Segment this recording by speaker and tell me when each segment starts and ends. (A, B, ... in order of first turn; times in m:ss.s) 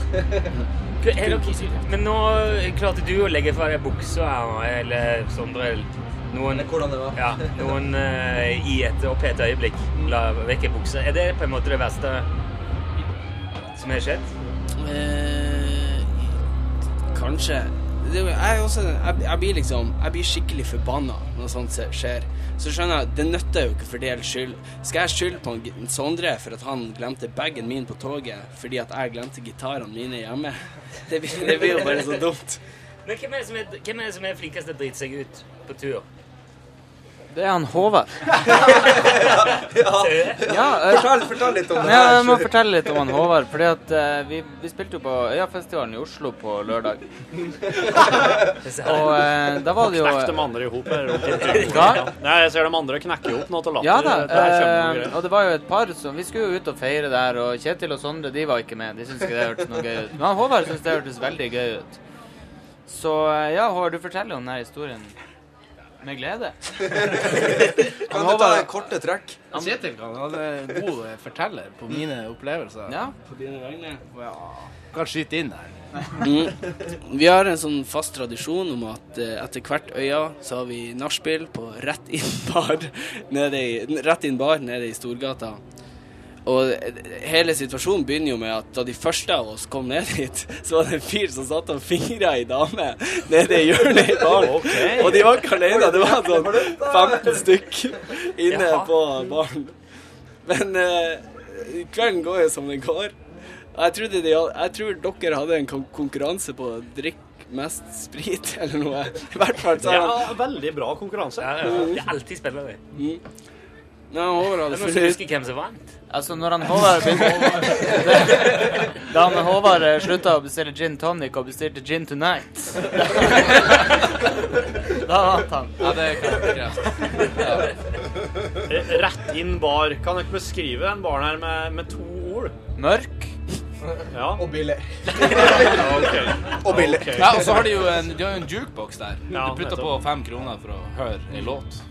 0:01.0-0:12.3 A
0:01.2-0:01.8 B
0:06.5-0:07.8 C
0:13.7-0:14.3 A
0:14.8-0:16.4 B
0:17.1-0:32.6 B
0:33.0-0:36.0 A
0:37.3-0:38.1 D
0:38.4-0:43.1 C
0:38.6-0:39.4 A
0:39.9-0:40.4 A
0:40.4-0:47.0 D
0:48.6-0:49.2 A
0:48.8-0:50.5 D
0:49.8-0:55.2 E
0:51.2-0:52.1 A
0:51.6-0:52.1 D
0:53.8-1:02.0 D
1:02.9-1:05.1 D
1:06.0-1:06.7 D
1:06.9-1:09.4 C
1:08.0-1:08.7 D
1:09.5-1:13.0 F
1:09.6-1:10.3 B
1:12.9-1:13.1 D
1:13.2-1:14.7 B
1:14.4-1:16.0 F
1:16.2-1:25.6 B
1:26.4-1:39.7 B
1:34.2-1:35.4 E
1:35.5-1:37.5 C
1:38.5-1:39.1 A
1:40.4-1:43.1 B
1:43.7-1:50.3 B
1:49.7-1:51.7 E
1:51.4-1:52.8 A
1:51.6-1:52.0 B
1:52.9-1:53.2 B
1:54.1-1:55.2 B
1:54.5-1:55.8 A
1:56.1-2:03.9 D
2:04.9-2:05.9 D
2:05.8-2:06.9 F
2:07.2-2:07.4 D
2:08.6-2:12.5 E
2:12.8-2:13.3 D
2:14.1-2:14.5 E
2:14.3-2:17.6 C
2:15.2-2:17.4 E
2:17.1-2:21.8 F
2:19.3-2:20.0 E